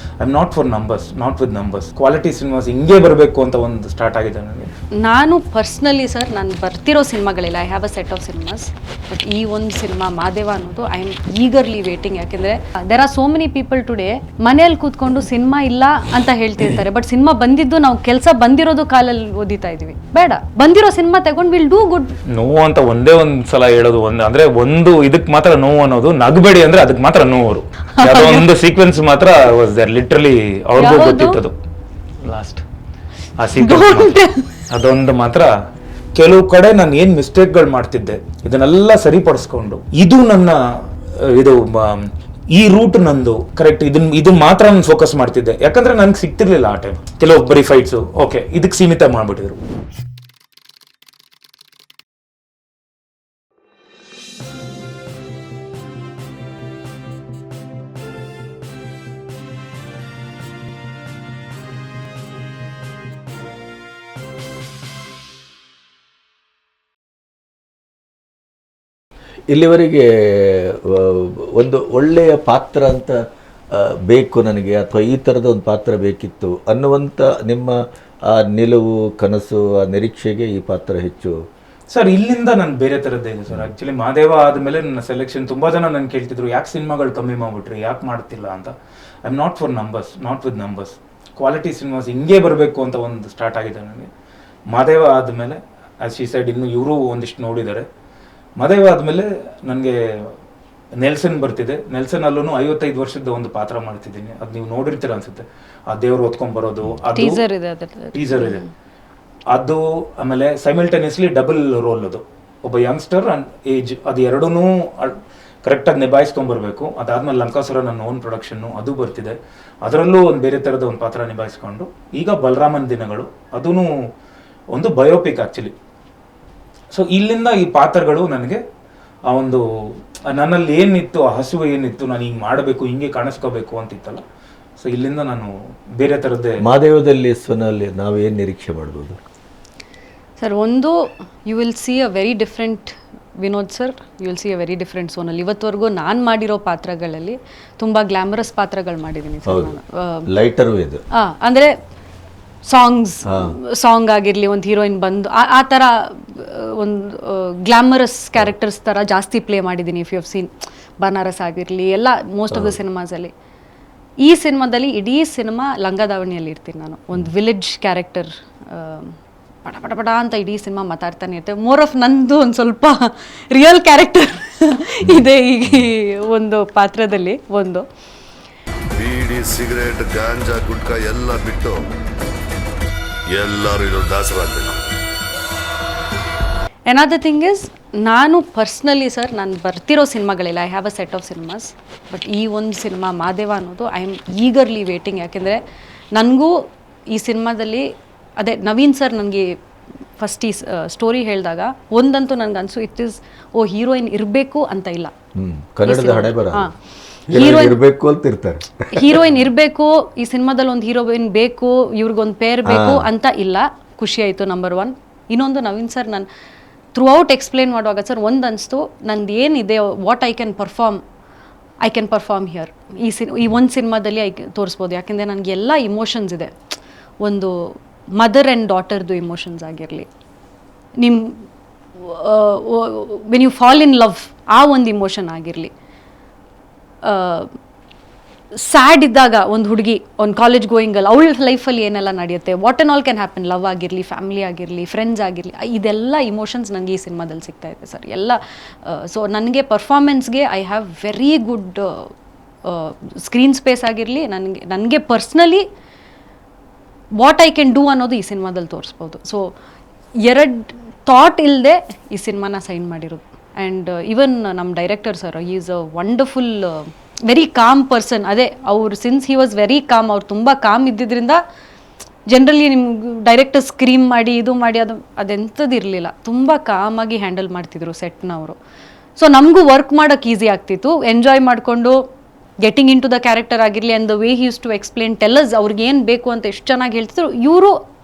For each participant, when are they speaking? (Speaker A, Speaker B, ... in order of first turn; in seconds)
Speaker A: 0.2-4.7, 22.3-31.5, 32.2-32.6, 33.4-35.5, 36.1-49.6, 81.9-88.7, 89.2-94.1, 94.7-97.9, 98.6-100.3, 101.0-107.4, 108.1-108.6, 109.5-123.9, 124.7-125.7, 126.9-128.6, 129.3-134.2, 134.8-136.6
Speaker B: 5.0-22.1, 28.0-28.4, 30.8-31.4, 33.6-34.5, 107.1-108.7, 140.4-150.3, 151.2-151.7, 152.7-163.3, 164.2-177.8, 186.9-195.6, 196.1-196.5, 197.1-197.9, 198.4-199.5, 200.2-205.1, 205.8-206.7, 207.3-207.8, 208.9-216.3, 216.9-221.0, 221.8-226.5, 227.2-230.1, 231.0-231.4, 231.9-235.7, 237.0-237.5, 238.6-252.1, 252.6-255.6, 257.2-259.4, 260.2-271.4, 272.3-278.6, 279.2-282.0, 282.6-287.8
Speaker C: 69.5-73.2, 73.7-77.8, 78.3-81.3, 136.6-139.2, 149.4-149.8, 150.3-151.0, 153.2-153.5, 162.5-162.8, 205.3-206.7, 207.3-209.4, 212.6-213.1
Speaker D: 178.9-181.9, 183.3-184.8